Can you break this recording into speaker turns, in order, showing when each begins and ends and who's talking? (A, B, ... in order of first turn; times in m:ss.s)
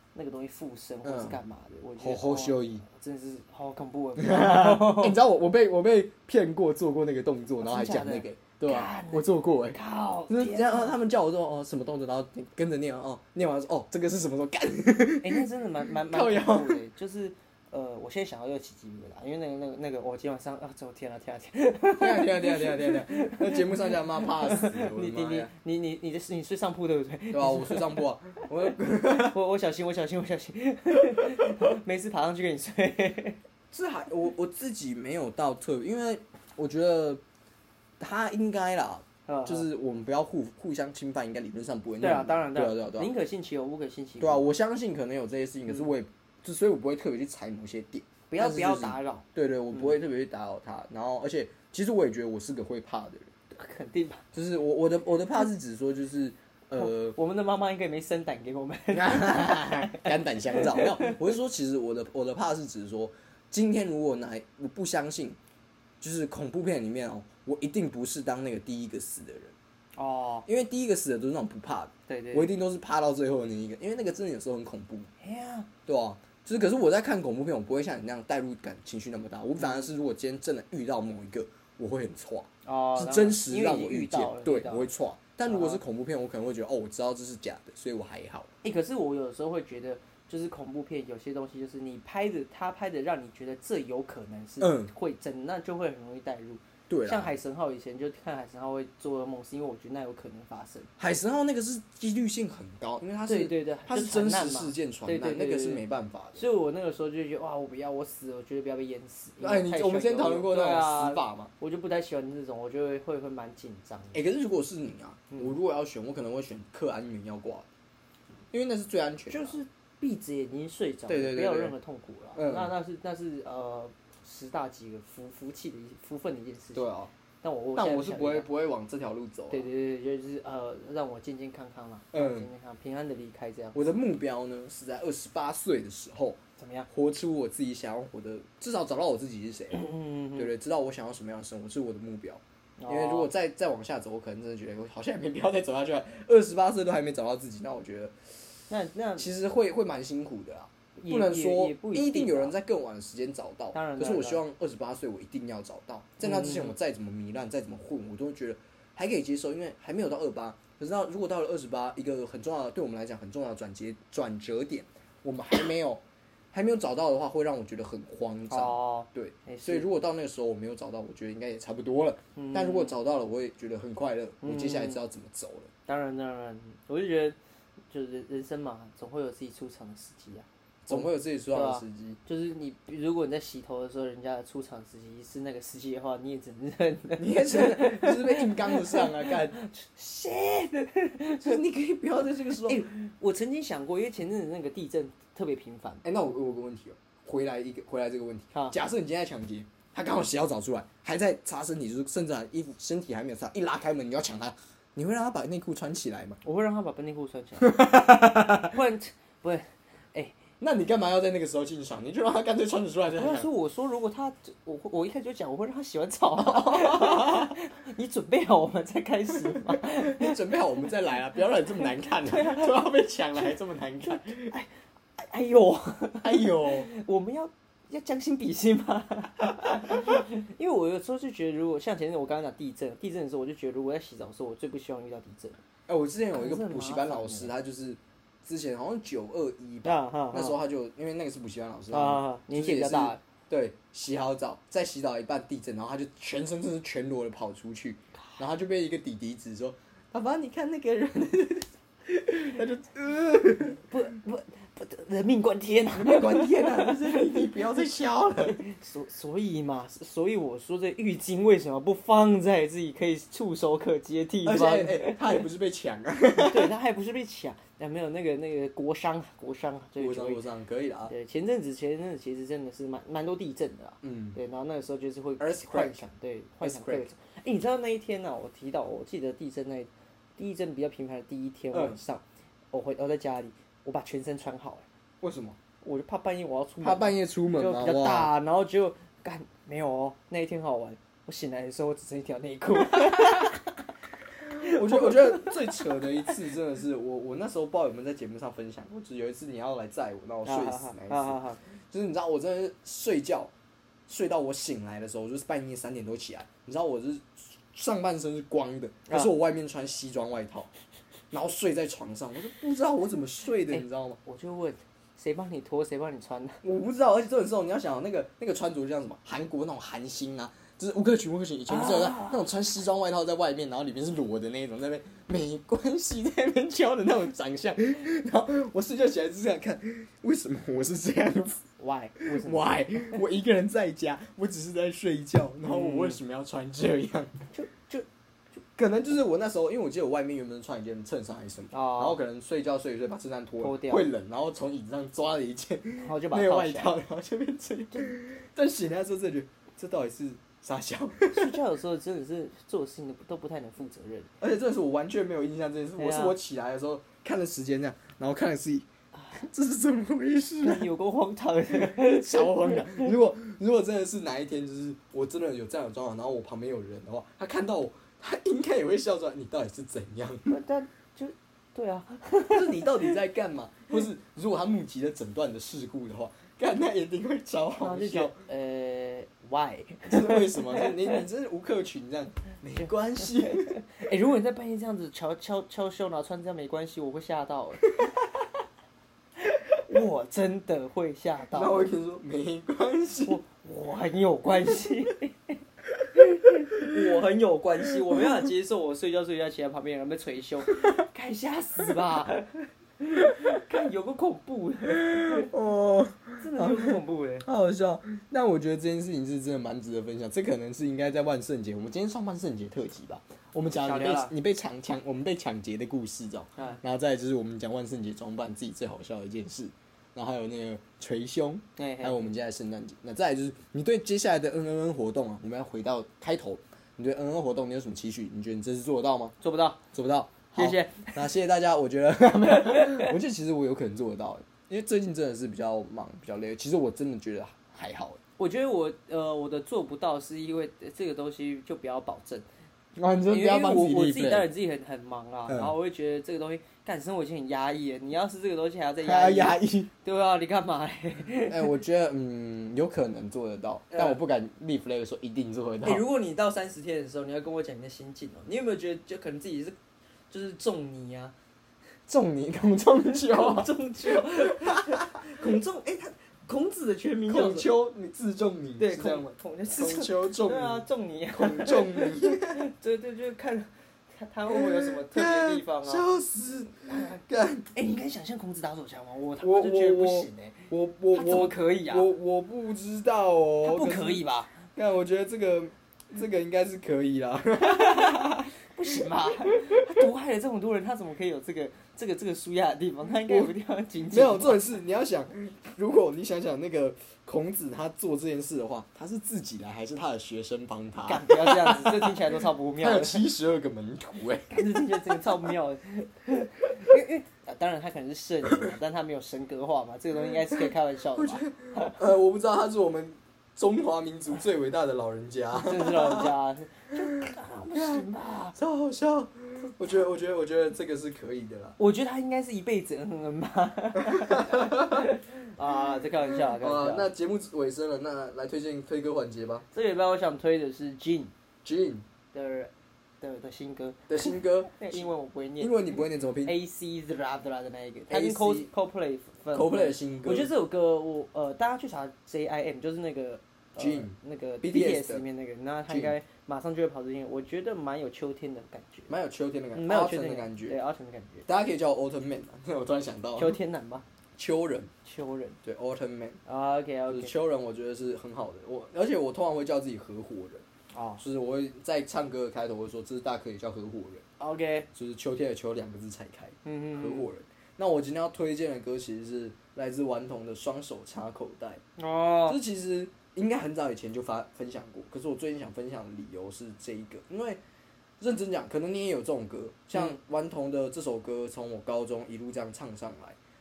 0:00.2-0:05.2 A
0:01.0-0:01.4 B
0:02.0-0:02.8 B
0:04.2-0:16.8 B
0:07.6-0:11.0 A
0:15.2-0:28.1 A
0:22.0-0:25.5 B
0:27.3-0:29.4 B
0:29.1-0:33.4 A
0:33.7-0:37.2 B
0:38.0-0:43.1 B
0:39.3-0:39.7 A
0:42.0-0:44.5 A
0:44.2-0:53.3 B
0:48.3-0:50.0 A
0:53.5-0:54.2 A
0:54.3-0:57.2 B
0:56.8-1:01.2 A
0:58.9-1:05.4 B
1:06.0-1:09.5 B
1:10.0-1:10.5 A
1:10.5-1:15.1 B
1:12.1-1:12.5 A
1:15.2-1:15.7 A
1:15.9-1:28.5 B
1:19.6-1:19.9 A
1:22.6-1:24.9 A
1:25.5-1:25.8 A
1:28.6-1:40.9 A
1:34.6-1:34.9 B
1:36.9-1:37.3 B
1:41.0-1:46.4 B
1:43.3-1:45.8 A
1:46.4-1:54.2 A
1:49.4-1:51.5 B
1:54.1-1:57.7 B
1:58.5-1:59.6 B
1:59.3-2:06.9 A
2:01.1-2:01.7 B
2:02.4-2:02.7 B
2:06.8-2:07.1 B
2:07.4-2:08.5 A
2:07.8-2:09.7 B
2:09.5-2:13.8 A
2:12.1-2:12.5 B
2:13.7-2:28.2 B
2:16.6-2:16.9 A
2:19.7-2:20.5 A
2:22.8-2:23.3 A
2:28.7-2:29.3 A
2:29.2-2:55.7 B
2:31.0-2:32.5 A
2:33.7-2:34.4 A
2:36.2-2:36.7 A
2:48.5-2:49.9 A
2:52.4-2:53.0 A
2:54.4-2:55.0 A
2:55.9-2:57.4 A
2:57.9-3:11.6 A
3:00.9-3:02.2 B
3:07.2-3:09.6 B
3:11.4-3:12.9 B
3:12.6-3:16.0 A
3:16.0-3:26.4 B
3:26.4-3:30.4 A
3:27.6-3:28.8 B
3:30.6-3:33.5 B
3:33.2-3:40.4 A
3:36.4-3:37.5 B
3:39.3-3:44.6 B
3:41.8-3:43.5 A
3:44.0-3:55.6 A
3:46.2-3:46.9 B
3:49.6-3:50.2 B
3:55.9-4:13.9 B
3:56.3-3:57.5 A
3:59.8-4:00.6 A
4:01.9-4:03.2 A
4:13.9-4:17.5 A
4:15.9-4:18.6 B
4:18.5-4:25.4 A
4:24.4-4:26.7 B
4:26.3-4:30.4 A
4:30.0-4:31.1 B
4:31.1-4:44.9 A
4:34.0-4:34.4 B
4:35.4-4:36.1 B
4:36.6-4:37.1 B
4:41.7-4:42.0 B
4:45.2-4:45.6 B
4:45.8-4:53.7 A
4:46.8-4:48.3 B
4:52.8-4:53.6 B
4:54.5-5:03.5 B
4:54.5-4:56.4 A
5:00.4-5:01.6 A
5:04.1-5:10.7 B
5:11.3-5:14.2 B
5:13.7-5:16.6 A
5:16.6-5:31.7 B
5:21.7-5:22.4 A
5:31.8-5:33.2 A
5:32.2-5:37.4 B
5:35.7-5:36.2 A
5:37.5-5:38.1 A
5:38.8-5:51.6 B
5:41.7-5:42.2 A
5:43.6-5:44.1 A
5:46.0-5:46.9 A
5:47.9-5:48.2 A
5:51.3-5:54.3 A
5:54.4-6:00.9 B
5:56.0-5:56.4 A
5:59.2-5:59.4 A
6:00.6-6:03.1 A
6:01.7-6:10.6 B
6:10.5-6:13.2 A
6:12.5-6:18.4 B
6:17.8-6:21.2 A
6:20.1-6:23.8 B
6:22.8-6:28.0 A
6:29.9-6:31.8 A
6:31.5-6:33.4 B
6:33.2-6:35.6 A
6:36.2-6:45.5 A
6:36.7-6:37.0 B
6:44.9-7:09.4 B
6:46.4-6:47.5 A
6:53.7-6:54.3 A
6:56.6-6:56.8 A
7:01.8-7:02.3 A
7:09.4-7:09.8 A
7:09.9-7:18.2 B
7:10.6-7:11.2 A
7:12.7-7:13.1 A
7:18.4-7:22.5 A
7:23.0-7:24.5 B
7:23.3-7:31.7 A
7:25.5-7:25.8 B
7:29.0-7:29.9 B
7:31.5-7:36.0 B
7:33.9-7:34.2 A
7:35.8-7:39.8 A
7:40.3-7:41.3 A
7:42.1-7:45.4 B
7:43.2-7:47.7 A
7:47.3-7:52.6 B
7:48.8-7:56.1 A
7:54.5-7:57.7 B
7:56.9-8:02.1 A
7:59.4-8:04.2 B
8:03.6-8:04.6 A
8:04.8-8:09.1 B
8:07.6-8:14.6 A
8:09.6-8:10.1 B
8:13.3-8:13.5 B
8:14.1-8:25.6 B
8:21.1-8:23.3 A
8:24.5-8:32.0 A
8:30.2-8:30.6 B
8:31.2-8:36.3 B
8:35.5-8:38.6 A
8:36.9-8:41.8 B
8:41.8-8:47.1 A
8:44.0-8:45.1 B
8:46.3-8:49.7 B
8:49.7-8:51.3 A
8:51.6-8:52.0 B
8:52.3-8:55.9 A
8:54.1-8:56.6 B
8:56.4-9:09.1 A
8:58.1-8:58.7 B
8:59.5-9:00.5 B
9:03.8-9:05.2 B
9:05.9-9:06.2 B
9:09.1-9:10.8 B
9:09.7-9:11.5 A
9:11.5-9:13.6 B
9:13.4-9:14.0 A
9:14.4-9:14.9 B
9:15.0-9:15.6 A
9:15.6-9:16.4 B
9:16.5-9:17.3 A
9:17.1-9:20.6 B
9:20.9-9:21.2 A
9:21.2-9:24.2 B
9:24.4-9:24.9 A
9:24.9-9:31.8 B
9:26.6-9:27.3 A
9:32.0-9:32.6 A
9:32.5-9:37.6 B
9:38.2-9:43.4 B
9:39.9-9:40.2 A